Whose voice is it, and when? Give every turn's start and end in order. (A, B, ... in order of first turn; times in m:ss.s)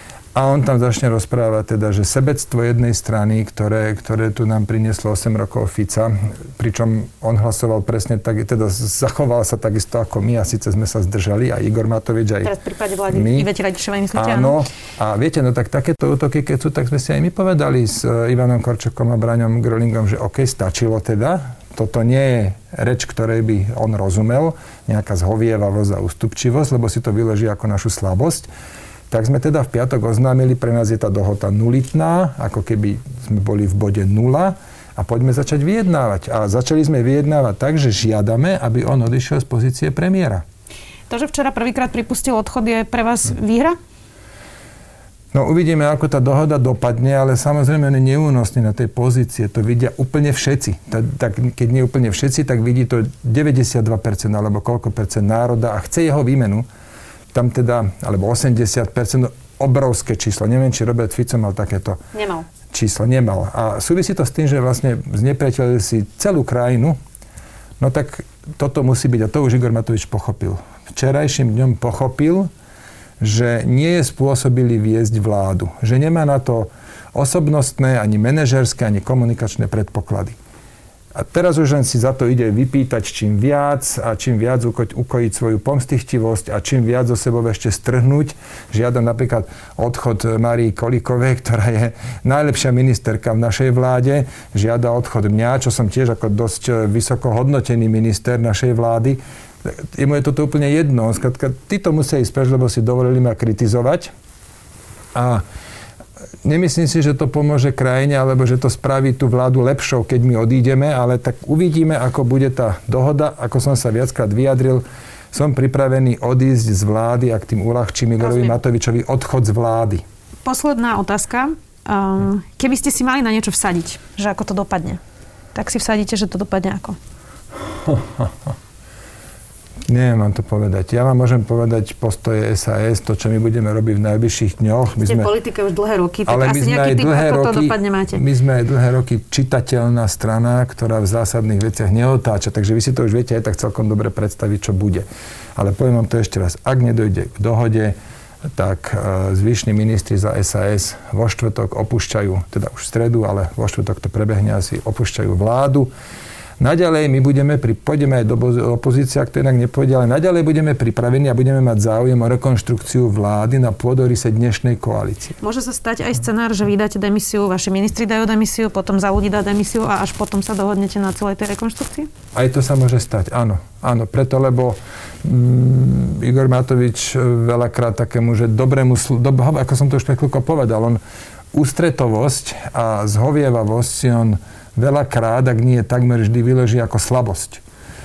0:00.3-0:12.5 A
0:12.4-0:14.5 B
0:13.1-0:13.5 A
0:14.1-0:28.5 A
0:29.1-0:40.4 A
0:41.1-0:43.8 B
0:45.3-0:56.6 A
0:57.3-1:02.0 A
1:02.1-1:02.5 B
1:02.7-1:07.0 A
1:07.8-1:12.5 A
1:13.2-1:20.4 A
1:21.1-1:44.1 A
1:45.1-1:45.4 A
1:46.4-2:00.0 A
1:58.2-1:58.6 B
2:00.4-2:05.0 B
2:05.5-2:07.0 B
2:07.7-2:08.5 A
2:09.9-2:15.3 A
2:15.0-2:18.2 B
2:16.3-2:27.9 A
2:28.5-2:35.9 A
2:36.6-2:45.4 A
2:45.4-2:52.1 B
2:52.3-3:01.0 A
3:01.5-3:07.6 A